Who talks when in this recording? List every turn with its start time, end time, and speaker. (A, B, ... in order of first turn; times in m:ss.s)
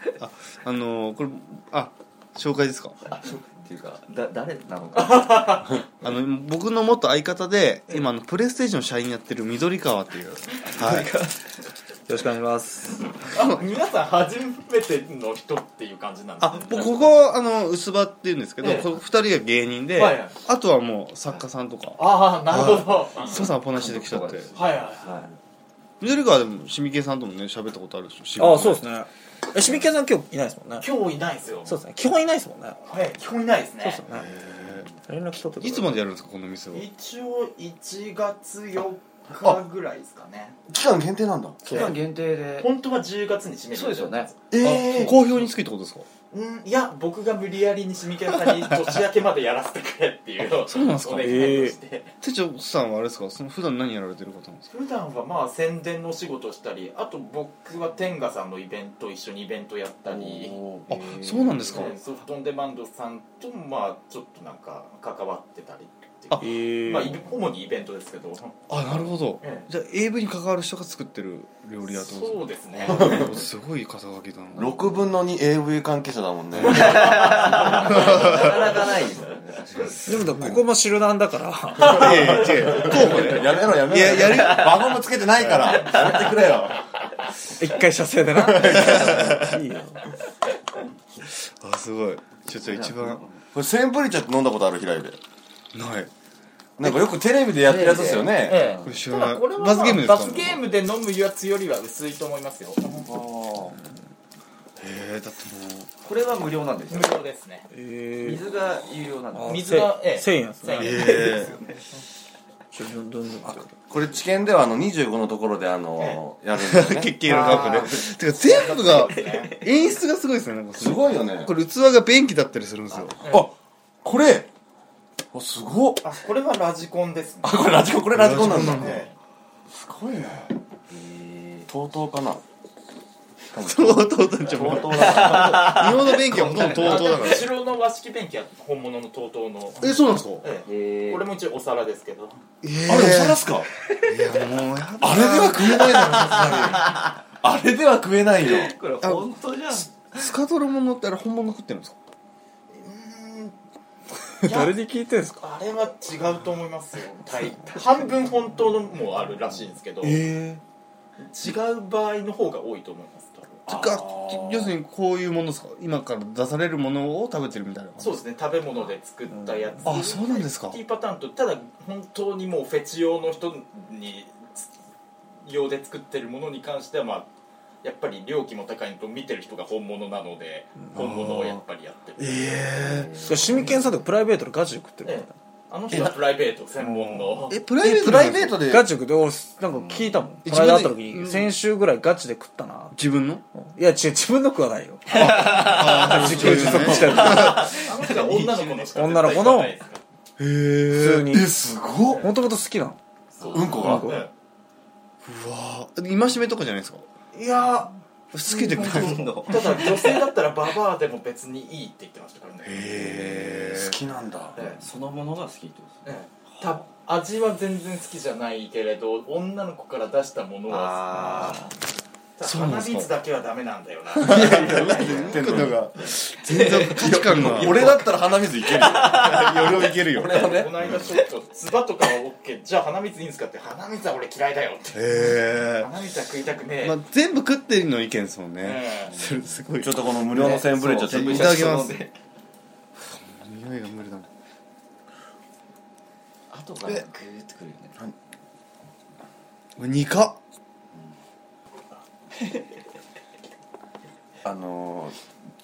0:00.2-0:03.0 A
0:03.1-0:05.6 B
0:04.9-0:05.8 C
0:06.0-0:11.1 A
0:10.6-0:13.2 B
0:13.3-0:17.1 C
0:16.4-0:24.5 A
0:18.6-0:18.9 C
0:20.0-0:20.3 C
0:22.0-0:23.5 C
0:23.3-0:25.3 B
0:24.5-0:25.2 C
0:26.0-0:28.8 A
0:28.4-0:30.9 D
0:30.8-0:31.8 C
0:31.6-0:32.8 D
0:32.9-0:34.0 C
0:33.8-0:34.3 D
0:34.1-0:34.9 A
0:35.0-0:35.9 D
0:35.6-0:36.8 A
0:36.7-0:40.6 C
0:40.7-0:41.7 E
0:41.6-0:41.9 D
0:41.7-0:42.7 B
0:41.7-0:42.0 C
0:42.6-0:45.3 C
0:43.7-0:44.3 B
0:44.5-0:45.2 E
0:44.6-0:46.0 A
0:46.3-0:52.1 C
0:50.6-0:51.6 A
0:51.2-0:51.8 D
0:52.2-0:54.7 A
0:54.7-1:00.7 C
1:00.1-1:01.3 E
1:00.9-1:01.9 A
1:01.6-1:08.6 C
1:06.4-1:07.2 D
1:08.7-1:15.0 A
1:09.4-1:09.7 C
1:11.8-1:13.3 C
1:14.5-1:18.4 E
1:16.6-1:17.1 A
1:16.6-1:20.1 B
1:17.1-1:17.5 C
1:18.0-1:18.4 A
1:20.0-1:22.1 D
1:20.1-1:20.6 A
1:21.8-1:26.0 A
1:21.8-1:26.8 E
1:22.0-1:22.8 C
1:27.6-1:30.0 D
1:28.4-1:29.2 E
1:28.7-1:29.6 A
1:31.2-1:33.2 A
1:32.6-1:33.4 B
1:33.5-1:35.2 E
1:35.7-1:36.1 A
1:36.8-1:38.6 E
1:37.6-1:39.0 B
1:38.4-1:43.1 C
1:38.8-1:40.6 A
1:43.1-1:43.7 E
1:44.8-1:45.9 A
1:46.0-1:47.2 B
1:46.9-1:47.7 C
1:47.7-1:48.4 D
1:48.2-1:49.8 B
1:49.3-1:50.9 D
1:49.5-1:51.7 C
1:50.7-1:51.5 A
1:50.9-1:51.7 B
1:52.7-1:53.7 D
1:53.5-1:57.8 E
1:56.6-2:03.2 A
1:57.2-1:59.6 C
1:59.2-1:59.6 B
2:00.8-2:01.5 E
2:03.2-2:03.5 C
2:03.3-2:04.5 E
2:05.3-2:06.0 E
2:06.0-2:07.8 C
2:07.4-2:09.1 E
2:08.1-2:09.1 A
2:08.3-2:09.1 C
2:09.7-2:10.5 E
2:10.9-2:11.7 B
2:11.7-2:12.4 E
2:13.5-2:15.8 E
2:13.6-2:17.5 A
2:15.0-2:17.4 B
2:16.6-2:22.4 C
2:19.8-2:20.5 A
2:20.6-2:21.3 B
2:22.6-2:23.4 A
2:22.9-2:23.7 E
2:24.0-2:26.5 A
2:25.0-2:28.7 E
2:28.4-2:30.3 B
2:29.9-2:32.0 A
2:32.7-2:33.5 C
2:34.4-2:35.4 D
2:34.4-2:34.7 C
2:35.4-2:40.2 C
2:40.0-2:40.6 D
2:41.2-2:43.7 C
2:43.7-2:44.7 E
2:43.7-2:48.2 A
2:48.0-2:54.7 C
2:49.4-2:49.7 D
2:49.8-2:50.8 A
2:55.4-2:57.3 C
2:57.8-3:02.5 C
3:01.0-3:01.5 A
3:02.2-3:03.1 A
3:02.8-3:03.8 B
3:03.2-3:05.3 D
3:05.0-3:07.6 C
3:05.9-3:06.2 E
3:06.9-3:07.4 D
3:07.5-3:08.7 A
3:07.8-3:08.8 E
3:08.6-3:13.0 D
3:09.7-3:10.2 B
3:10.4-3:11.5 A
3:12.9-3:13.4 A
3:13.5-3:17.6 D
3:15.1-3:16.2 B
3:15.3-3:17.7 A
3:16.0-3:17.4 E
3:16.7-3:18.9 B
3:17.2-3:20.0 C
3:18.9-3:19.7 D
3:20.4-3:21.4 A
3:20.9-3:21.5 D
3:21.3-3:22.2 E
3:22.1-3:23.0 D
3:23.3-3:24.3 C
3:23.5-3:24.2 E
3:23.7-3:24.3 D
3:25.2-3:29.5 A
3:27.4-3:27.8 C
3:28.5-3:30.1 B
3:29.4-3:32.9 C
3:32.6-3:34.0 A
3:32.9-3:34.6 E
3:34.6-3:34.8 C
3:34.6-3:36.1 B
3:36.0-3:41.6 C
3:40.7-3:41.6 B
3:42.4-3:45.4 C
3:42.4-3:43.1 A
3:44.2-3:48.0 A
3:44.2-3:45.8 E
3:44.8-3:45.6 B
3:46.4-3:48.1 B
3:46.9-3:50.7 E
3:48.7-3:49.8 B
3:49.0-3:50.5 A
3:50.3-3:57.0 C
3:54.9-3:55.9 A
3:56.8-4:02.0 A
3:58.6-3:59.2 C
3:59.2-3:59.6 B
3:59.8-4:01.8 E
4:00.3-4:02.1 B
4:03.1-4:04.3 A
4:06.5-4:08.0 B
4:09.8-4:10.4 A
4:12.4-4:12.6 B
4:14.4-4:15.1 E